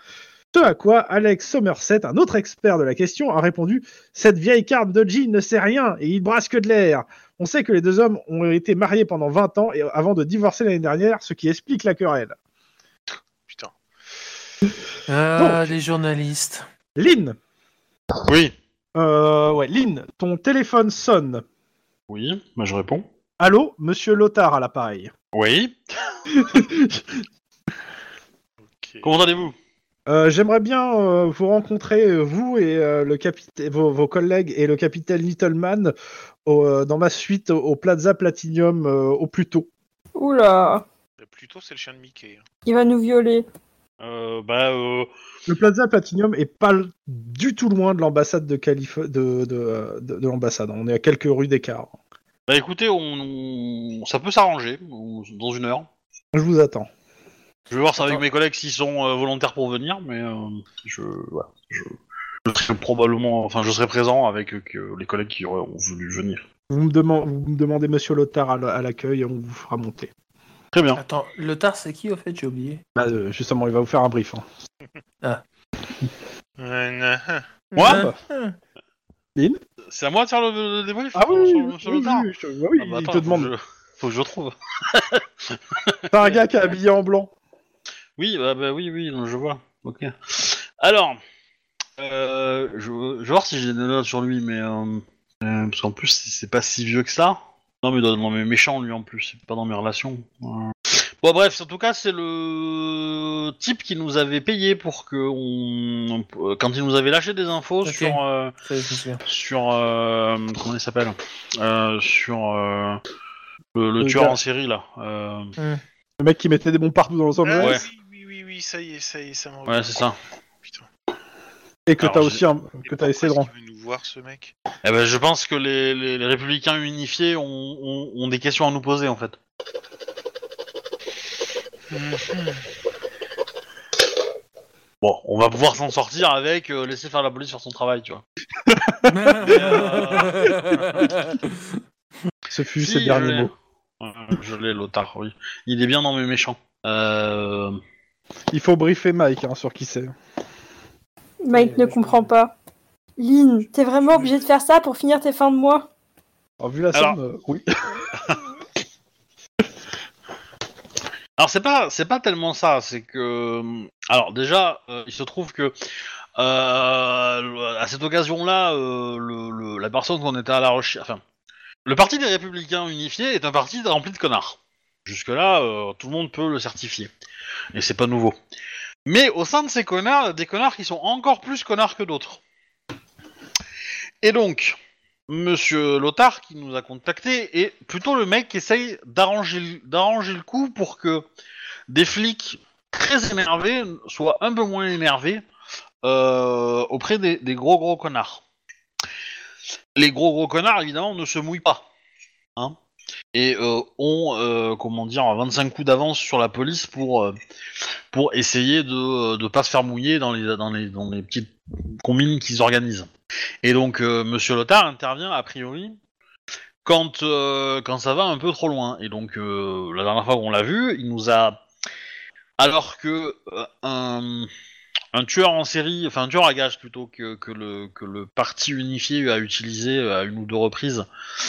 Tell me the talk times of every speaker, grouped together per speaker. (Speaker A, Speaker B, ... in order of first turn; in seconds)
Speaker A: 0.5-12.3, 15.4-15.7, 16.9-17.4, 18.9-21.4, 23.4-25.1, 26.3-27.2, 30.1-35.9, 36.5-39.7, 45.5-51.9, 56.3-56.9, 66.7-70.1, 72.9-74.4, 77.8-78.2, 81.1-83.5, 86.1-87.3, 114.0-114.4, 116.2-117.8, 121.9-123.5, 138.7-139.5, 142.5-143.5, 148.5-150.1, 156.6-158.1
Speaker B: 13.5-13.7, 28.7-29.2, 41.2-42.4, 76.6-77.4, 117.4-120.0, 122.8-124.5, 131.9-132.6
Speaker C: 15.1-16.6, 71.0-72.8, 77.7-78.6, 107.8-109.2, 115.6-115.8, 139.1-141.6, 151.5-152.3
Speaker D: 18.2-18.5, 22.1-23.1, 25.3-26.1, 29.0-29.6, 44.0-45.1, 52.5-55.9, 57.7-66.4, 70.7-71.0, 77.8-78.1, 79.9-86.4, 88.2-91.2, 92.0-108.5, 109.2-113.0, 113.7-115.5, 117.6-117.8, 119.7-120.2, 122.0-122.4, 124.8-129.3, 135.0-138.2, 139.4-141.0, 142.8-147.8, 161.4-165.8, 166.4-171.2, 171.8-177.1, 177.7-178.3, 179.1-182.4, 184.2-184.8, 185.3-191.2, 191.9-195.4, 196.0-198.4, 199.9-201.8, 203.3-207.3, 208.1-213.1, 213.6-216.0, 216.8-221.6, 222.6-224.5, 225.1-231.1
Speaker E: 40.1-40.8, 42.6-43.4, 151.4-152.5, 153.2-155.9